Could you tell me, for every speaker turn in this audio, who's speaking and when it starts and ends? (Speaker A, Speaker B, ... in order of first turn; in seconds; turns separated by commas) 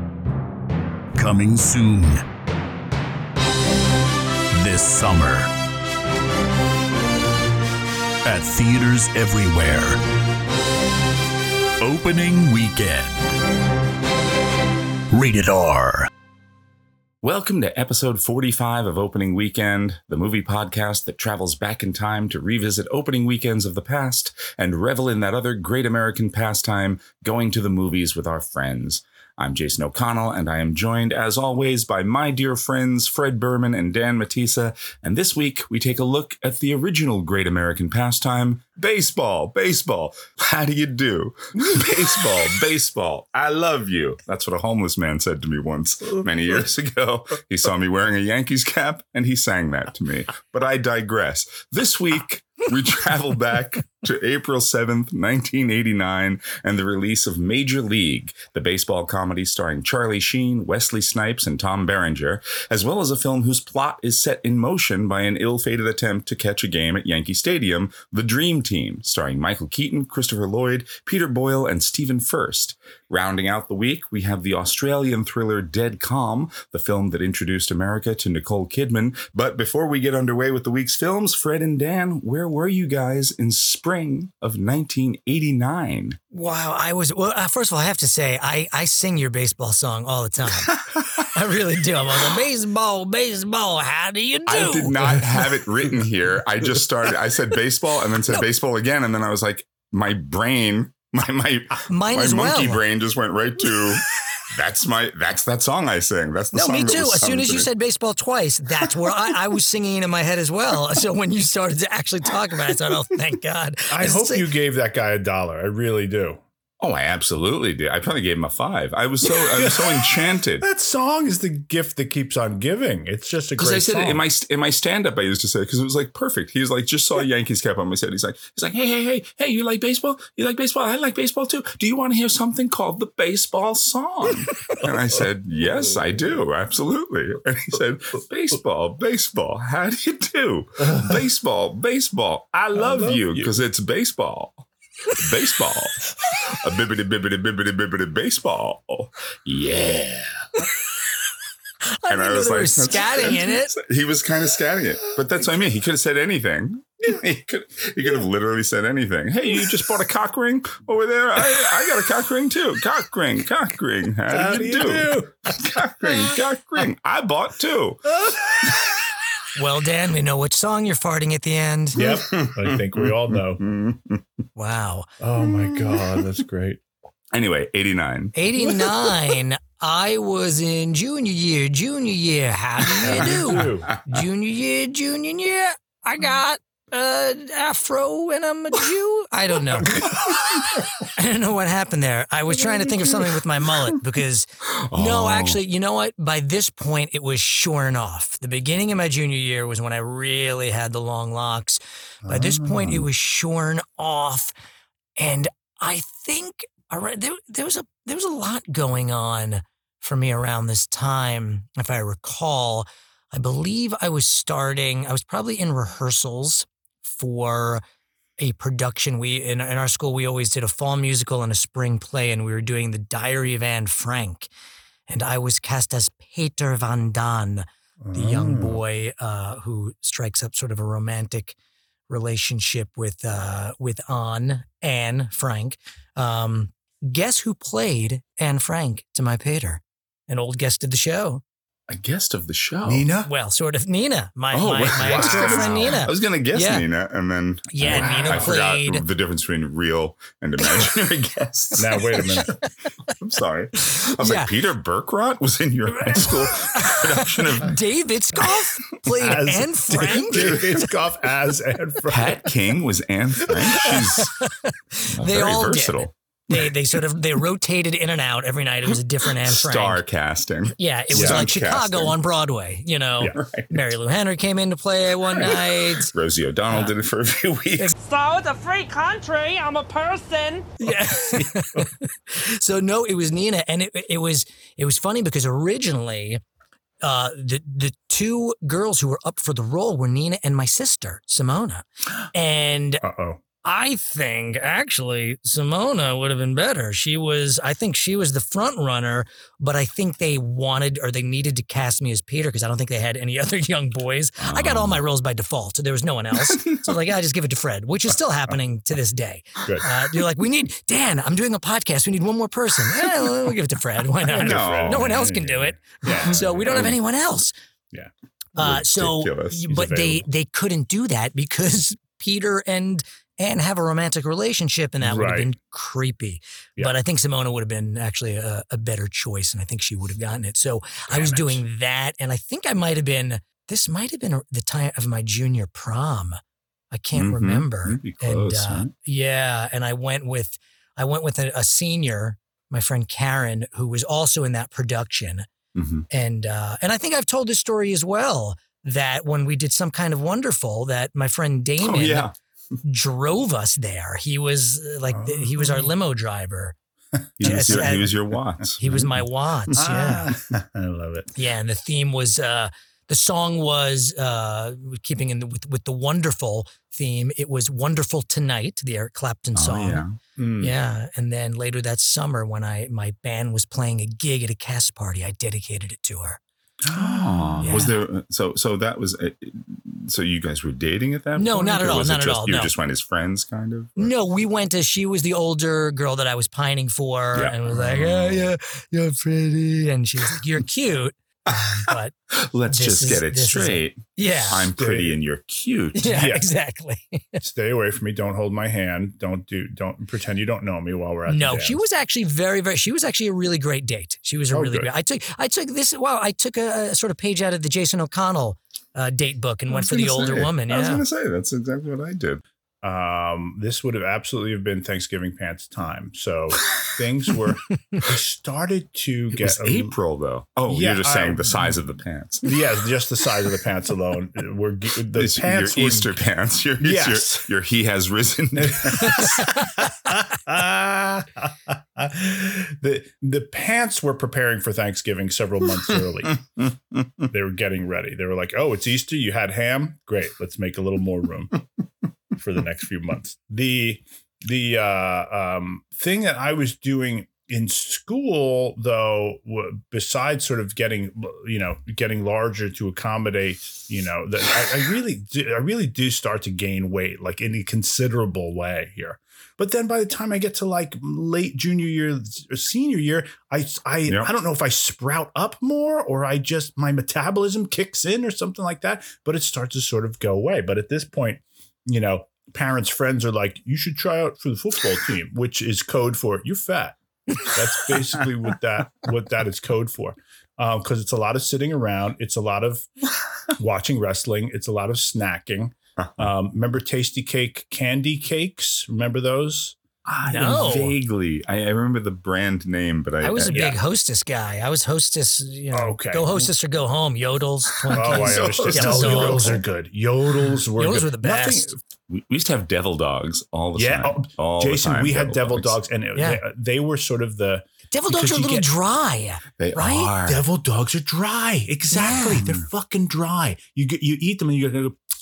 Speaker A: 1.1-2.2, Speaker A: 4.5-5.5, Speaker A: 8.2-10.0, Speaker A: 11.8-13.2, Speaker A: 15.1-16.1, Speaker B: 17.2-86.2, Speaker C: 41.6-41.9, Speaker D: 86.3-95.2, Speaker B: 90.7-91.3, Speaker B: 94.5-107.7, Speaker D: 101.9-102.8, Speaker D: 106.5-114.5, Speaker C: 113.9-116.4, Speaker B: 116.8-120.7, Speaker C: 119.3-124.2, Speaker B: 123.6-150.4, Speaker C: 142.6-143.6, Speaker D: 152.0-153.7, Speaker B: 152.1-168.1, Speaker C: 164.3-165.5, Speaker C: 168.2-168.7, Speaker D: 169.6-172.2, Speaker C: 172.0-173.6, Speaker B: 172.3-174.2, Speaker D: 174.6-175.1, Speaker C: 175.2-176.8, Speaker B: 177.3-178.3, Speaker D: 178.3-190.0, Speaker C: 183.0-183.9, Speaker B: 183.1-184.0, Speaker D: 191.2-204.5, Speaker B: 194.8-195.6, Speaker C: 202.2-203.1, Speaker D: 205.2-217.8, Speaker D: 218.4-224.5, Speaker D: 225.1-231.6, Speaker C: 228.0-228.8, Speaker D: 232.1-241.4, Speaker B: 241.9-243.1, Speaker C: 242.8-243.3, Speaker D: 243.2-246.8, Speaker B: 244.5-252.3, Speaker C: 245.0-246.0, Speaker D: 247.7-249.0, Speaker C: 247.8-248.5, Speaker C: 251.8-252.5, Speaker D: 252.2-252.6, Speaker B: 253.2-257.8, Speaker D: 254.2-254.5, Speaker D: 256.2-260.5, Speaker C: 259.2-262.5, Speaker B: 260.3-260.9, Speaker B: 262.1-264.4, Speaker D: 264.4-270.0, Speaker B: 265.2-266.1, Speaker B: 269.4-272.1, Speaker D: 270.8-276.1, Speaker C: 271.1-271.4, Speaker B: 273.3-273.8, Speaker B: 275.4-277.9, Speaker E: 278.0-280.7, Speaker D: 280.8-286.4, Speaker C: 280.9-281.9, Speaker D: 287.0-293.0, Speaker C: 293.0-293.4, Speaker D: 293.6-317.5, Speaker B: 304.4-305.0, Speaker B: 306.5-306.8, Speaker C: 314.2-316.9, Speaker B: 314.3-315.1, Speaker B: 316.7-316.9, Speaker D: 318.6-336.4, Speaker B: 318.6-320.2, Speaker C: 325.0-325.5, Speaker C: 331.1-331.6, Speaker D: 336.9-345.5, Speaker B: 337.1-338.9, Speaker B: 345.8-346.1, Speaker D: 346.1-352.3, Speaker B: 351.8-352.3, Speaker D: 352.8-356.8, Speaker C: 355.1-355.9, Speaker C: 357.4-358.1, Speaker B: 357.4-359.2, Speaker D: 357.4-358.2, Speaker D: 358.8-360.3, Speaker C: 359.8-361.3, Speaker D: 361.4-370.0, Speaker B: 369.6-370.2, Speaker C: 370.4-370.7, Speaker D: 370.6-376.4, Speaker C: 376.8-377.9, Speaker B: 377.0-384.1, Speaker D: 377.6-377.9, Speaker D: 381.4-382.7, Speaker D: 384.0-392.1, Speaker B: 387.3-388.5, Speaker B: 391.5-396.2, Speaker D: 392.7-394.6, Speaker C: 394.8-395.2, Speaker D: 396.0-397.4, Speaker C: 396.1-396.4, Speaker C: 397.4-401.8, Speaker D: 401.3-411.0, Speaker C: 404.5-404.9, Speaker B: 409.7-412.4, Speaker C: 412.8-420.0, Speaker B: 419.4-422.5, Speaker C: 420.7-421.8, Speaker C: 422.4-426.2, Speaker B: 425.1-429.5, Speaker C: 426.8-427.5, Speaker C: 428.6-436.4, Speaker B: 436.6-437.3, Speaker C: 437.3-441.6, Speaker C: 442.4-477.0, Speaker C: 477.5-482.9, Speaker C: 483.6-490.9, Speaker B: 486.0-486.3, Speaker B: 490.3-493.6, Speaker D: 490.3-490.9, Speaker D: 493.2-499.6, Speaker C: 493.5-493.8, Speaker C: 495.7-496.5, Speaker B: 497.9-499.6, Speaker C: 497.9-501.8, Speaker D: 500.8-501.7, Speaker B: 502.1-505.8, Speaker C: 503.8-508.7, Speaker D: 506.2-506.4, Speaker D: 507.9-510.1, Speaker B: 509.6-510.4, Speaker C: 510.2-515.0, Speaker D: 511.9-512.4